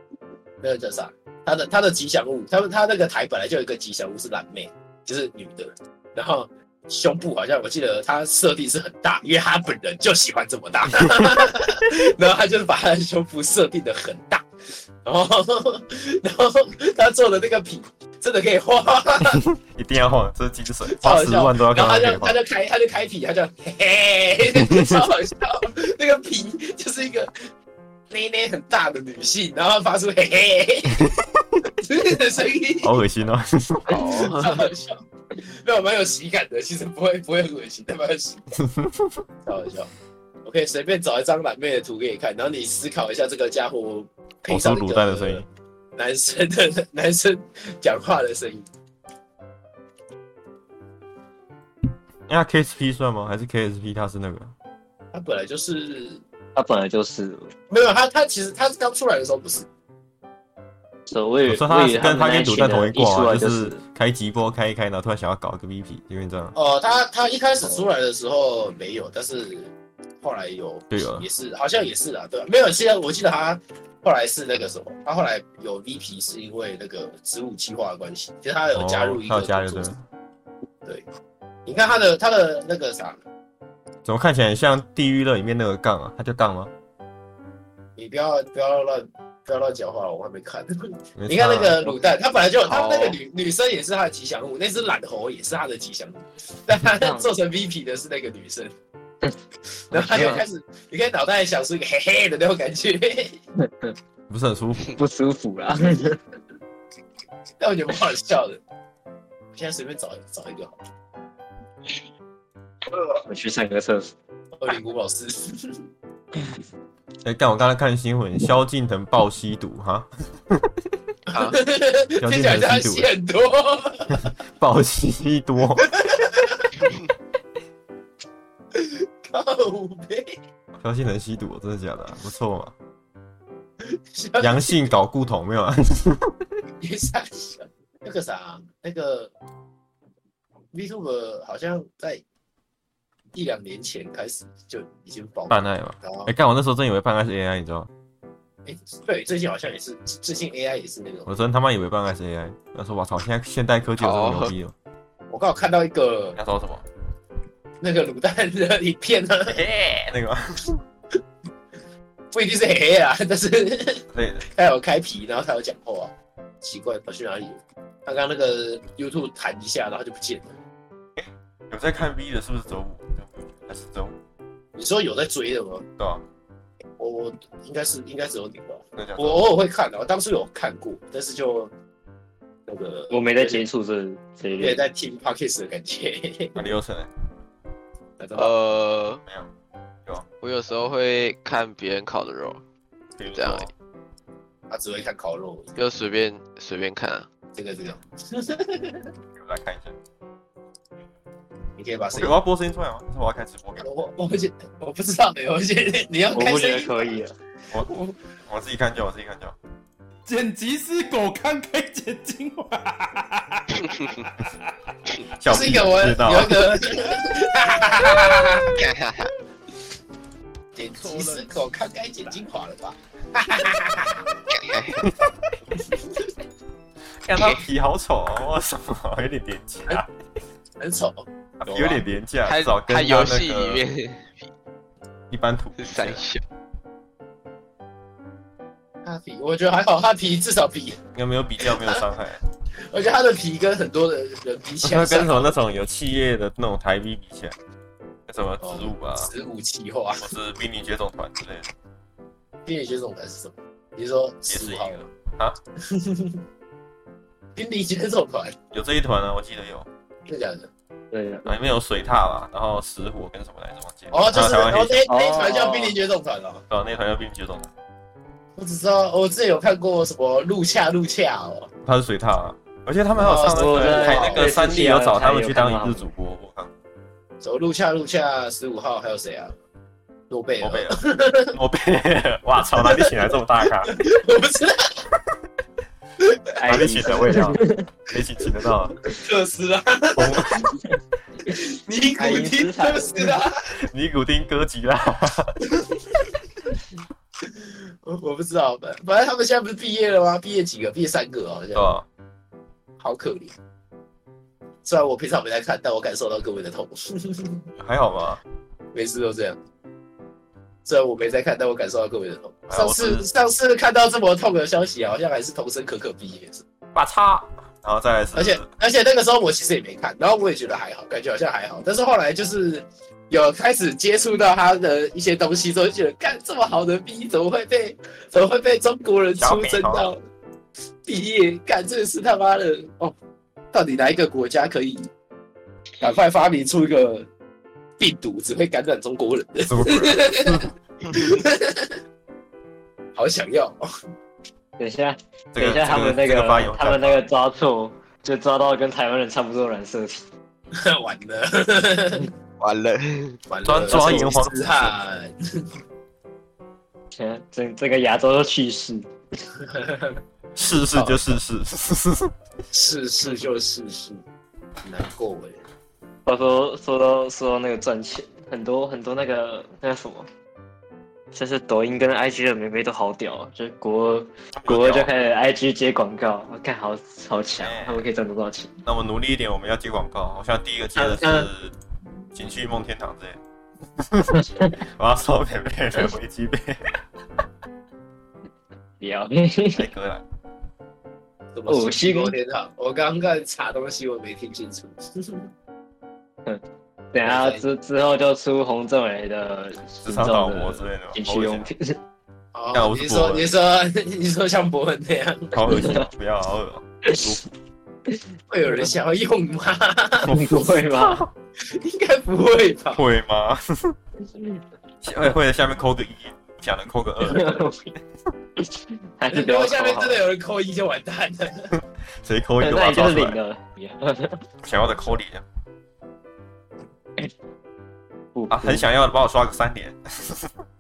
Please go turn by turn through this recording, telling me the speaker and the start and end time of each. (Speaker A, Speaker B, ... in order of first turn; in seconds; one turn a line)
Speaker A: 0.6-14.4
Speaker A: 15.0-19.4
Speaker B: 19.4-22.4
Speaker A: 21.0-27.3
Speaker B: 24.5-25.0
Speaker A: 28.1-31.1
Speaker B: 31.0-31.6
Speaker A: 31.7-33.0
Speaker B: 32.8-34.0
Speaker C: 33.9-34.7
Speaker A: 33.9-38.5
Speaker B: 38.6-39.2
Speaker A: 39.5-39.9
Speaker A: 40.4-48.7
Speaker B: 44.5-45.5
Speaker B: 52.3-54.5
Speaker A: 55.1-56.2
Speaker D: 56.5-57.5
Speaker A: 57.7-59.7
Speaker D: 61.1-63.8
Speaker B: 61.5-66.5
Speaker A: 66.5-79.9
Speaker B: 70.9-71.3
Speaker B: 78.7-80.0
Speaker A: 81.7-83.2
Speaker B: 84.0-86.7
Speaker A: 88.0-90.7
Speaker B: 91.2-91.9
Speaker A: 91.3-98.7
Speaker C: 92.7-93.2
Speaker D: 96.8-97.3
Speaker A: 99.9-103.4
Speaker D: 99.9-100.4
Speaker D: 103.7-104.0
Speaker B: 104.3-104.9
Speaker D: 105.0-106.2
Speaker A: 107.6-108.6
Speaker A: 109.5-110.7
Speaker D: 113.1-114.1
Speaker A: 114.5-115.8
Speaker B: 117.2-120.7
Speaker A: 121.3-124.3
Speaker B: 122.2-123.1
Speaker B: 124.2-125.9
Speaker A: 125.8-126.7
Speaker A: 128.7-130.4
Speaker B: 130.8-132.7
Speaker A: 133.8-134.9
Speaker B: 134.4-136.3
Speaker A: 136.8-139.3
Speaker A: 140.7-142.2
Speaker A: 143.3-146.3
Speaker B: 145.5-147.9
Speaker A: 148.7-151.3
Speaker B: 151.3-154.7
Speaker C: 154.0-154.6
Speaker A: 155.3-156.4
Speaker B: 156.4-156.8
Speaker A: 157.8-159.6
Speaker B: 159.5-160.8
Speaker A: 162.3-170.6
Speaker B: 164.1-164.5
Speaker B: 171.2-174.2
Speaker A: 174.8-175.9
Speaker B: 176.0-176.2
Speaker A: 177.0-181.7
Speaker B: 179.0-179.5
Speaker A: 182.7-183.6
Speaker D: 183.1-184.8
Speaker A: 184.6-186.7
Speaker B: 186.6-187.1
Speaker A: 188.2-188.5
Speaker C: 188.3-189.2
Speaker C: 190.4-192.6
Speaker B: 193.2-193.7
Speaker C: 193.3-193.7
Speaker A: 194.7-195.8
Speaker C: 195.8-197.3
Speaker A: 197.5-199.1
Speaker B: 199.4-199.9
Speaker A: 201.8-202.4
Speaker B: 202.1-203.9
Speaker A: 203.8-207.2
Speaker D: 206.3-207.3
Speaker A: 207.8-208.2
Speaker B: 208.5-209.6
Speaker E: 210.3-214.6
Speaker C: 213.8-214.2
Speaker B: 215.4-216.8
Speaker A: 215.5-218.8
Speaker C: 218.7-219.3
Speaker A: 220.8-224.2
Speaker D: 221.0-221.4
Speaker C: 224.5-225.1
Speaker B: 225.0-225.3
Speaker A: 225.8-226.3
Speaker B: 227.3-230.1
Speaker C: 227.3-227.7
Speaker A: 230.8-232.1
Speaker B: 231.6-233.8
Speaker C: 232.4-234.5
Speaker B: 235.3-236.2
Speaker C: 235.8-236.4
Speaker A: 239.0-241.0
Speaker B: 241.1-242.4
Speaker A: 241.6-242.0
Speaker A: 242.9-245.6
Speaker B: 244.8-247.6
Speaker B: 248.3-249.3
Speaker A: 248.6-250.4
Speaker B: 250.2-251.7
Speaker A: 252.7-255.0
Speaker B: 254.5-255.6
Speaker A: 255.9-256.4
Speaker A: 257.6-258.6
Speaker B: 258.7-259.9
Speaker A: 260.3-260.7
Speaker D: 261.1-261.5
Speaker B: 261.5-265.1
Speaker A: 264.1-266.6
Speaker D: 265.1-266.0
Speaker B: 266.7-267.7
Speaker A: 268.6-271.7
Speaker B: 271.9-276.7
Speaker A: 273.2-274.4
Speaker D: 273.5-276.1
Speaker A: 277.4-279.6
Speaker A: 280.3-281.6
Speaker B: 280.6-281.0
Speaker B: 281.5-283.9
Speaker A: 282.8-283.3
Speaker A: 283.8-285.1
Speaker A: 286.2-286.9
Speaker D: 286.6-287.9
Speaker B: 286.7-288.9
Speaker A: 289.1-290.7
Speaker B: 290.2-290.7
Speaker A: 291.4-293.6
Speaker D: 292.2-293.3
Speaker B: 293.9-295.6
Speaker A: 295.7-296.3
Speaker A: 297.4-301.9
Speaker B: 301.7-302.1
Speaker A: 303.0-303.6
Speaker A: 304.8-307.6
Speaker B: 307.8-308.4
Speaker A: 308.9-309.6
Speaker A: 310.9-316.6
Speaker B: 312.7-313.3
Speaker B: 316.9-318.7
Speaker A: 318.4-330.2
Speaker B: 329.4-330.1
Speaker A: 331.1-333.1
Speaker A: 333.7-335.1
Speaker A: 336.0-337.3
Speaker A: 338.0-342.0
Speaker B: 339.7-340.7
Speaker A: 343.1-343.8
Speaker D: 344.8-350.2
Speaker B: 345.5-347.2
Speaker A: 350.7-352.3
Speaker C: 352.6-353.4
Speaker A: 353.5-355.3
Speaker B: 353.6-354.9
Speaker D: 353.9-354.3
Speaker D: 357.2-359.1
Speaker A: 359.7-360.2
Speaker B: 360.6-362.3
Speaker A: 360.9-361.3
Speaker A: 362.7-364.2
Speaker A: 364.8-365.6
Speaker D: 366.3-370.3
Speaker D: 371.3-378.8
Speaker B: 374.6-375.1
Speaker B: 377.6-378.1
Speaker B: 378.9-381.7
Speaker D: 381.0-381.5
Speaker B: 382.3-383.4
Speaker B: 384.0-384.3
Speaker D: 384.4-384.8
Speaker B: 385.0-386.8
Speaker D: 389.0-389.9
Speaker B: 389.8-390.2
Speaker A: 391.5-395.5
Speaker D: 391.7-392.3
Speaker D: 396.5-401.9
Speaker A: 397.2-397.7
Speaker B: 400.0-401.7
Speaker A: 402.5-405.7
Speaker B: 402.7-403.5
Speaker B: 405.5-407.5
Speaker D: 405.7-406.0
Speaker D: 407.1-407.4
Speaker A: 408.5-410.3
Speaker B: 410.2-411.3
Speaker D: 410.3-411.3
Speaker A: 411.7-413.1
Speaker B: 412.9-413.9
Speaker D: 414.2-414.6
Speaker B: 415.0-417.6
Speaker D: 417.2-417.9
Speaker D: 419.2-420.2
Speaker A: 419.3-421.7
Speaker B: 421.7-423.4
Speaker D: 422.6-424.4
Speaker B: 424.6-425.4
Speaker D: 428.4-428.9
Speaker B: 428.5-430.5